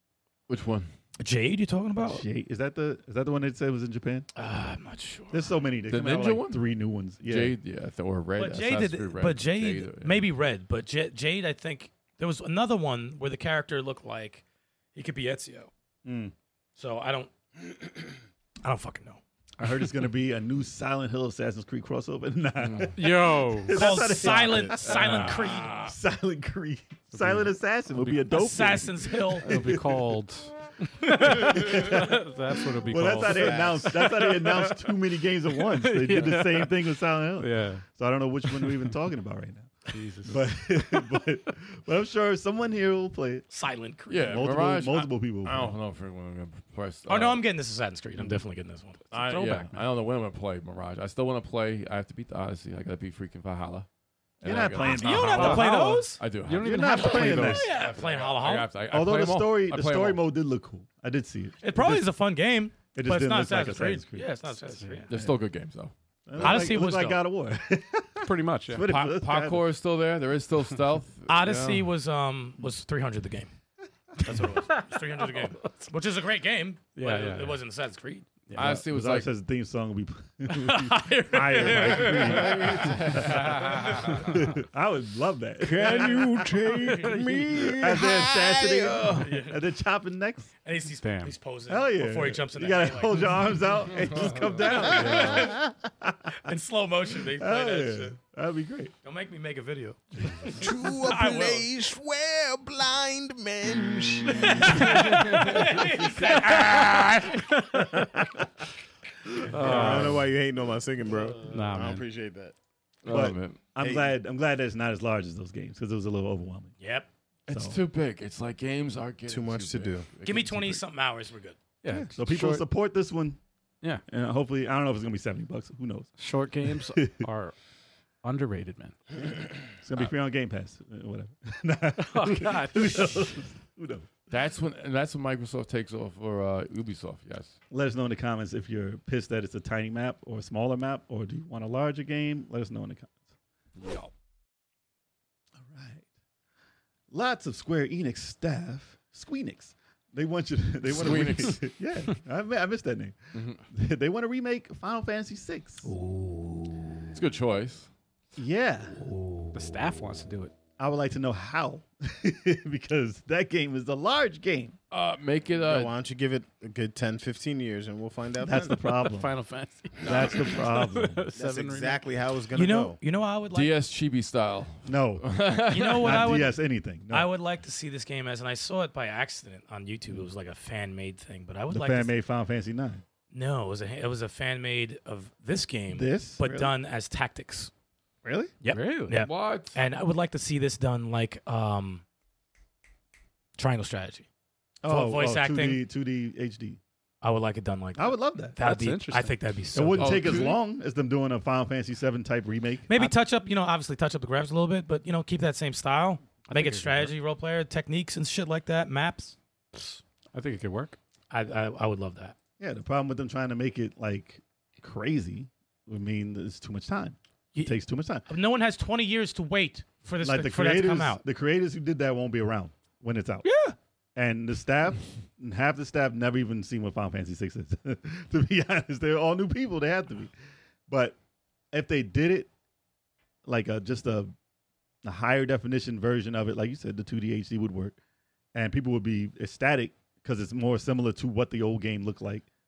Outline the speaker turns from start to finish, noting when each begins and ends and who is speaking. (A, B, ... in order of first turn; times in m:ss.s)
0:00.5-0:00.9 A
0:01.2-0:02.2 B
0:02.0-0:04.3 C
0:04.4-0:05.6 B
0:05.3-0:07.6 C
0:05.9-0:06.7 A
0:07.2-0:10.3 A
0:08.4-0:14.4 B
0:14.9-0:15.7 B
0:16.0-0:16.3 C
0:16.8-0:19.2 B
0:19.6-0:30.0 C
0:22.6-0:22.9 A
0:22.9-0:23.8 D
0:23.7-0:25.8 B
0:24.2-0:24.7 E
0:24.8-0:26.0 A
0:27.1-0:28.2 D
0:28.3-0:29.5 B
0:29.4-0:35.0 D
0:31.1-0:32.2 C
0:32.8-0:43.5 C
0:33.2-0:33.9 E
0:35.5-0:37.8 D
0:38.5-0:38.9 D
0:39.9-0:41.2 D
0:43.5-0:44.4 B
0:44.1-0:47.4 A
0:44.3-0:45.8 C
0:47.1-0:49.1 B
0:49.1-0:53.9 A
0:49.2-0:49.7 D
0:54.4-1:00.2 A
0:54.4-0:55.7 C
0:54.8-0:56.2 B
0:55.3-0:57.7 D
0:56.6-0:57.7 C
0:57.2-0:58.7 B
0:58.9-1:02.1 C
1:01.6-1:05.1 B
1:02.9-1:04.3 C
1:04.8-1:05.0 D
1:05.1-1:06.7 A
1:06.3-1:09.6 C
1:06.4-1:07.2 B
1:08.2-1:08.9 D
1:08.8-1:11.9 A
1:11.3-1:13.5 B
1:14.2-1:14.4 C
1:14.2-1:18.3 B
1:14.7-1:15.5 D
1:17.0-1:17.6 D
1:18.5-1:19.3 A
1:18.6-1:26.6 C
1:20.7-1:24.3 B
1:21.5-1:22.4 D
1:22.6-1:24.0 A
1:25.6-1:29.3 E
1:25.7-1:27.8 D
1:25.8-1:27.2 B
1:27.6-1:30.5 C
1:29.1-1:29.6 B
1:30.6-1:33.3 B
1:31.0-1:31.4 D
1:31.7-1:36.4 C
1:34.2-1:35.4 A
1:34.7-1:35.7 B
1:35.1-1:35.4 E
1:36.4-1:38.2 B
1:37.3-1:38.9 C
1:39.0-1:41.7 B
1:40.5-1:45.8 E
1:44.3-1:47.4 B
1:46.4-1:47.0 E
1:48.0-1:48.4 C
1:49.5-1:50.2 D
1:49.5-1:52.6 E
1:49.6-1:50.3 C
1:51.5-1:52.0 D
1:53.0-1:53.6 A
1:53.1-1:56.8 C
1:53.8-1:54.1 E
1:56.8-1:57.1 B
1:57.5-2:00.8 A
1:57.5-1:57.8 C
1:59.3-2:00.1 E
2:00.2-2:01.6 B
2:01.8-2:02.6 D
2:01.9-2:03.4 C
2:04.1-2:06.2 C
2:06.2-2:07.6 D
2:06.7-2:07.2 C
2:08.2-2:09.0 D
2:09.8-2:14.1 C
2:12.0-2:13.2 D
2:14.3-2:17.6 A
2:17.7-2:23.2 C
2:23.8-2:24.1 A
2:25.6-2:26.0 C
2:27.1-2:35.9 C
2:30.8-2:31.6 A
2:33.3-2:33.6 A
2:35.8-2:37.0 B
2:37.1-2:37.9 A
2:38.4-2:39.0 C
2:39.0-2:39.6 B
2:39.5-2:40.5 D
2:40.8-2:44.8 C
2:44.9-2:45.9 A
2:45.6-2:48.9 E
2:48.4-2:49.3 C
2:49.0-2:52.0 D
2:50.0-2:50.3 E
2:50.0-2:51.3 C
2:51.4-2:53.0 E
2:52.5-2:53.7 B
2:53.5-2:56.4 A
2:54.9-2:55.4 C
2:55.7-3:02.1 B
2:56.0-2:57.3 C
3:01.7-3:03.0 C
3:03.3-3:07.7 B
3:05.9-3:06.7 C
3:08.2-3:08.5 C
3:08.6-3:12.0 B
3:08.7-3:09.2 D
3:09.1-3:09.8 A
3:13.6-3:14.3 B
3:14.8-3:16.8 C
3:14.8-3:15.8 B
3:17.2-3:20.5 B
3:18.0-3:18.6 C
3:18.6-3:19.4 D
3:19.7-3:22.9 C
3:20.0-3:20.6 A
3:22.9-3:29.4 B
3:26.5-3:27.1 D
3:29.8-3:31.0 D
3:31.3-3:32.4 B
3:32.6-3:38.3 C
3:37.5-3:41.2 B
3:40.2-3:43.5 C
3:43.4-3:43.8 B
3:44.2-3:50.3 C
3:50.9-3:51.2 C
3:51.7-3:52.5 C
3:53.4-3:54.3 C
3:55.0-3:58.0 C
3:58.5-4:02.4 C